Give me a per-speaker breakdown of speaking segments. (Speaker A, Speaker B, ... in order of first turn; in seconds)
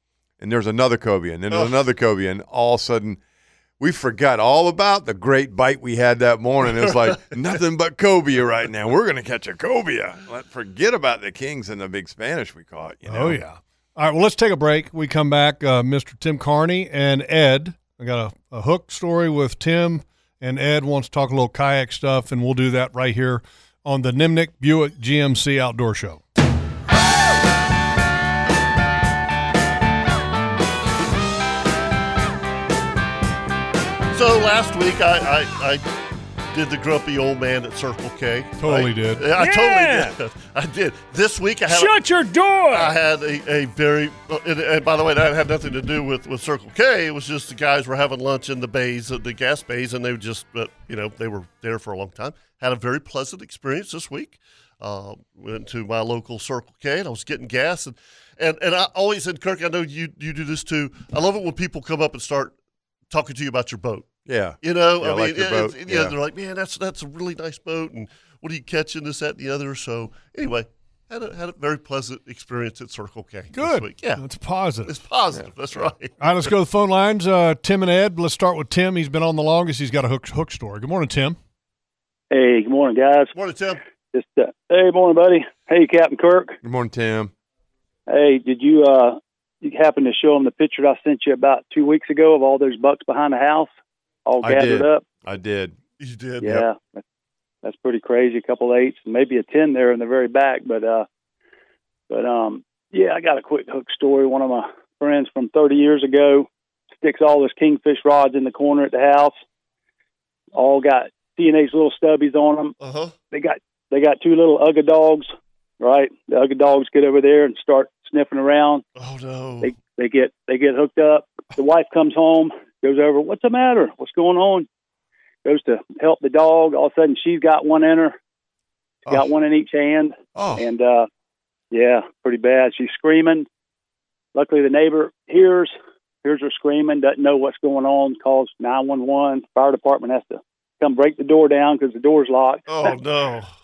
Speaker A: 0.4-3.2, 3.8-13.4, 64.3-66.2, 86.6-87.3, 94.4-95.8, 130.3-130.7
Speaker B: 1.5-1.8, 6.7-7.3, 34.1-35.8, 36.5-42.0, 42.7-62.6, 63.1-64.1, 64.6-74.2, 74.8-76.2, 83.3-83.8, 96.0-96.6, 112.8-113.1, 119.0-119.7, 142.7-143.5
Speaker C: 13.1-26.2, 38.6-39.3, 73.5-75.0, 76.2-81.4
Speaker D: 39.4-40.1, 41.7-42.9
Speaker E: 82.3-83.3, 84.1-86.6, 88.1-93.7, 94.3-95.0, 96.4-97.0, 97.6-101.1, 102.1-106.5, 107.0-109.3, 110.5-112.8, 113.3-115.3, 115.8-118.8, 119.6-124.7, 125.5-128.2, 129.1-131.1, 131.7-133.5, 134.3-143.0